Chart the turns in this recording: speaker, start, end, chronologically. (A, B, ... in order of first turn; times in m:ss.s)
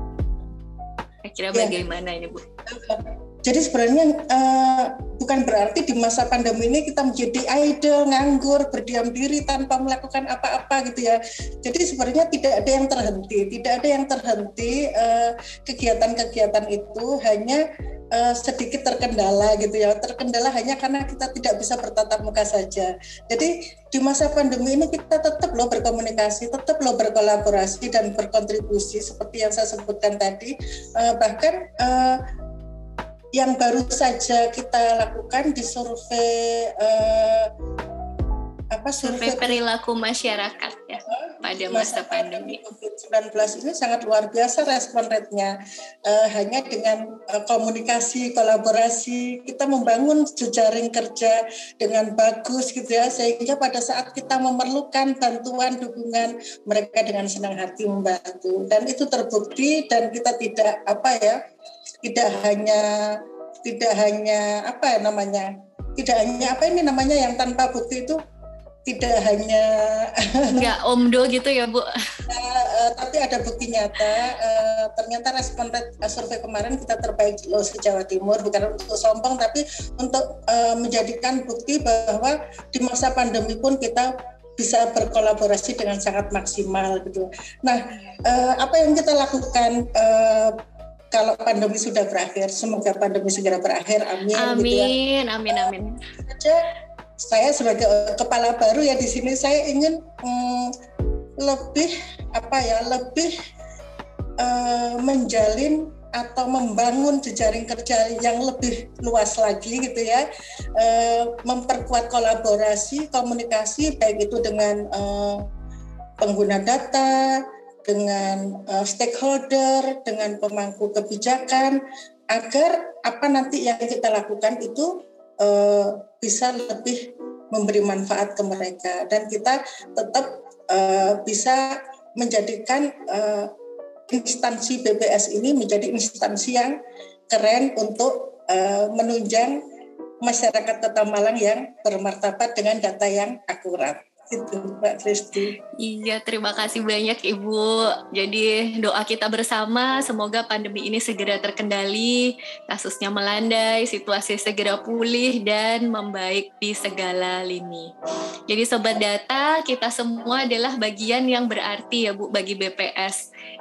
0:01.2-0:02.4 A
0:02.7-0:17.6 B
0:18.2-0:32.2 B
0:33.4-0:37.5 B
0:38.7-0:39.6 B
0:39.0-0:42.6 A
0:41.1-0:45.6 B
0:46.1-1:01.4 B
1:02.0-1:08.2 B
1:08.9-1:10.5 B
1:10.5-1:11.9 A
1:12.3-1:30.6 B
1:31.1-1:34.9 B
1:34.4-1:36.0 A
1:36.2-1:36.6 B
1:37.2-1:40.7 B
1:41.4-1:43.3 B
1:44.4-1:50.2 B
1:50.8-1:55.5 B
1:56.2-2:01.8 B
2:02.3-2:13.5 B
2:14.1-2:16.8 B
2:17.3-2:19.6 B
2:20.2-2:25.6 B
2:25.8-2:37.9 A
2:38.5-2:43.2 A